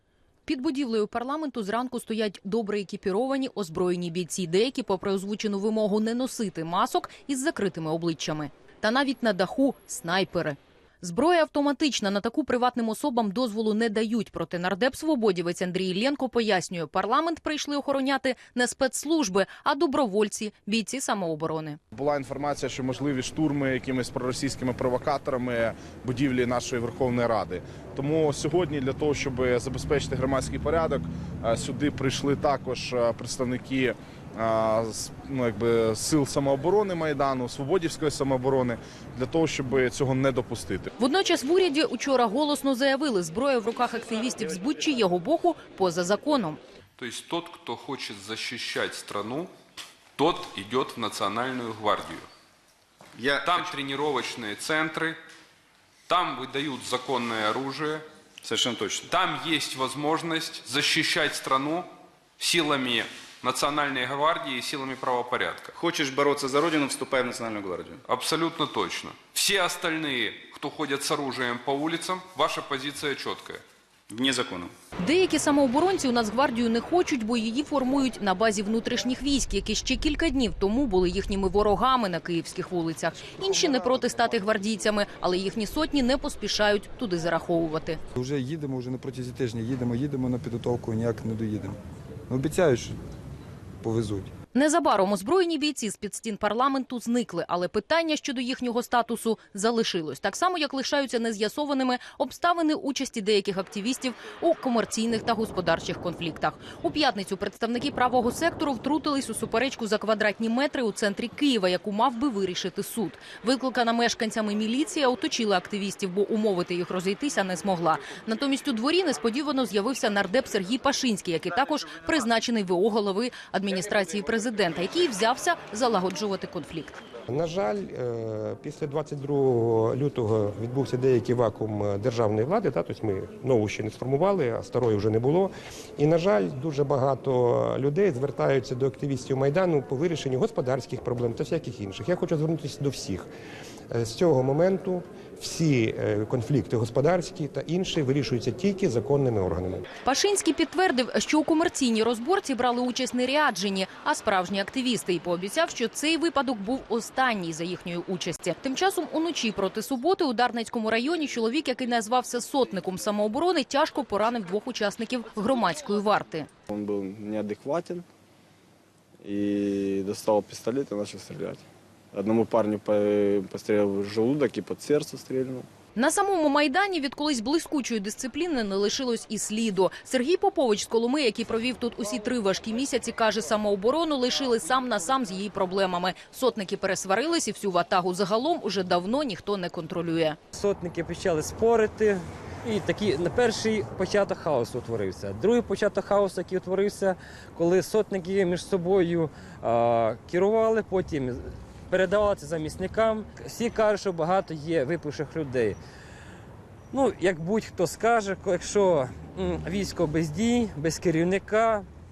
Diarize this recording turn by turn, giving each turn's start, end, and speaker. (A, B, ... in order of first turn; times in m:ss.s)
0:00.5-0:21.8 A
0:21.9-0:40.9 B
0:41.0-0:46.6 A
0:47.0-0:49.5 C
0:50.2-0:52.3 C
0:53.2-0:53.6 D
0:53.4-0:55.2 C
0:56.1-0:58.0 C
0:58.4-0:58.8 E
0:59.1-1:01.9 C
1:02.4-1:05.7 C
1:05.8-1:07.8 E
1:06.0-1:08.0 D
1:08.1-1:13.6 C
1:14.1-1:14.7 D
1:15.0-1:28.0 A
1:28.2-1:31.8 F
1:32.3-1:33.0 F
1:33.8-1:34.3 F
1:34.5-2:07.0 A
2:07.3-2:23.3 G
2:23.9-2:29.8 G
2:30.0-2:46.5 A
2:46.7-2:48.1 E
2:49.2-2:55.7 E
2:56.0-3:10.4 A
3:10.5-3:25.8 H
3:26.9-3:31.9 H